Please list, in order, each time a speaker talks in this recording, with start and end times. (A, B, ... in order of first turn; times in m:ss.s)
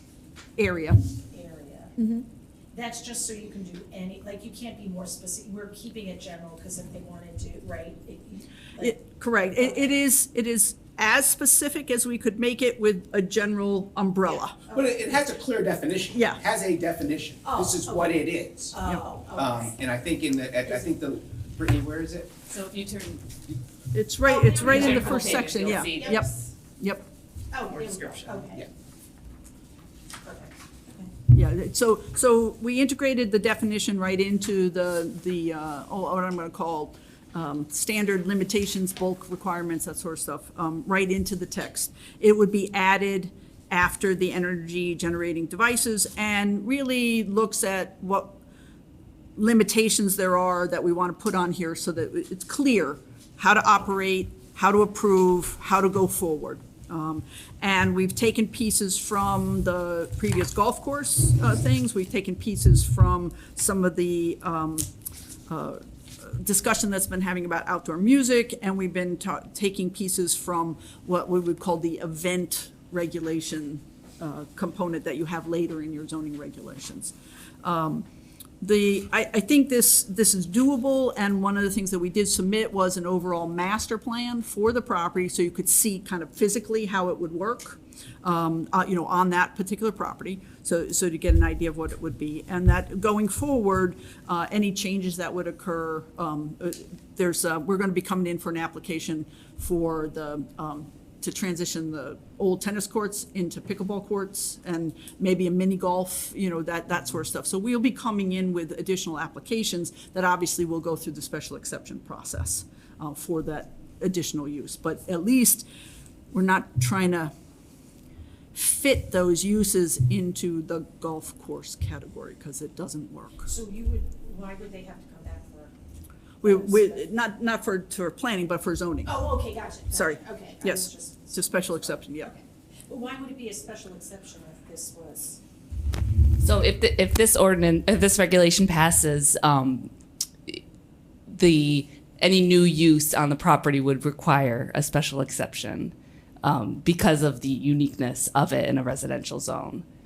0:00.6-0:01.1 A
0:01.3-0:01.9 B
0:02.0-0:02.2 A
0:02.7-0:09.0 B
0:08.8-0:14.6 A
0:14.3-0:14.9 B
0:14.7-0:22.4 C
0:17.4-0:19.8 B
0:22.5-0:23.2 D
0:23.9-0:27.1 A
0:24.2-0:26.3 B
0:24.6-0:26.3 D
0:27.5-0:28.6 B
0:27.7-0:28.7 C
0:30.2-0:31.1 B
0:31.3-0:48.4 A
0:49.4-1:04.9 A
1:05.5-1:18.0 A
1:18.6-1:55.7 A
1:56.3-1:57.3 A
1:58.5-2:03.5 A
2:03.4-2:05.7 B
2:06.4-2:07.0 B
2:06.4-2:09.2 A
2:09.0-2:15.4 B
2:09.9-2:12.3 A
2:16.4-2:19.9 D
2:21.3-2:29.8 D